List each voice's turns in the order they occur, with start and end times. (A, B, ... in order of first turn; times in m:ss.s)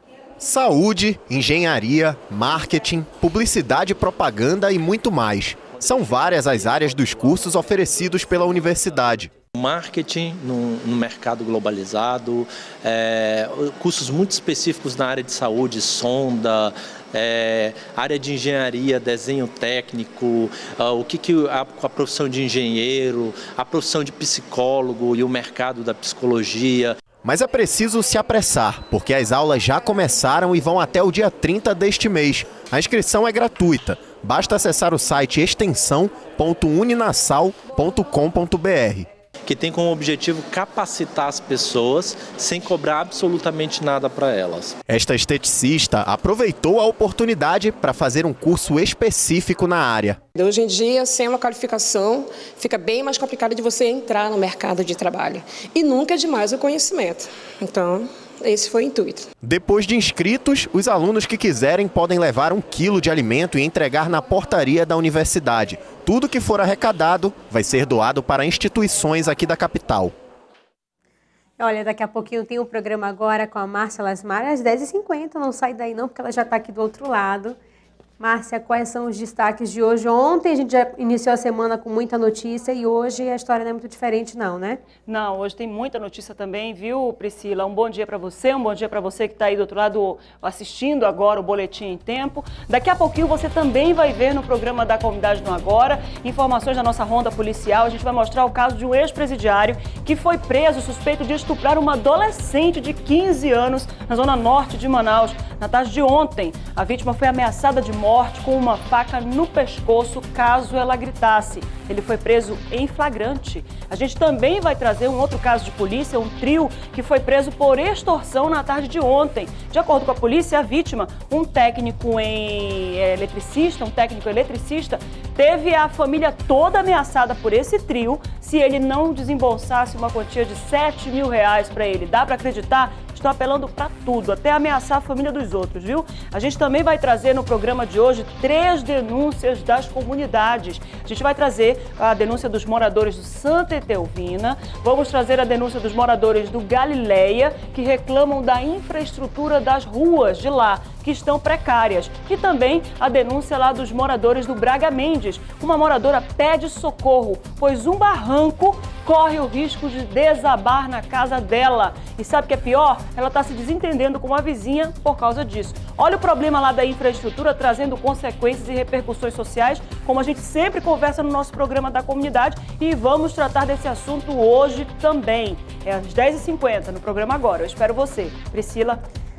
0:00.4-0:09.3 A
0:09.5-0:27.0 B
0:27.2-0:39.1 A
0:39.4-0:44.7 B
0:44.9-0:50.2 A
0:50.4-0:59.2 C
0:59.4-1:10.1 A
1:11.6-1:17.6 D
1:18.2-1:24.8 D
1:25.0-2:59.0 E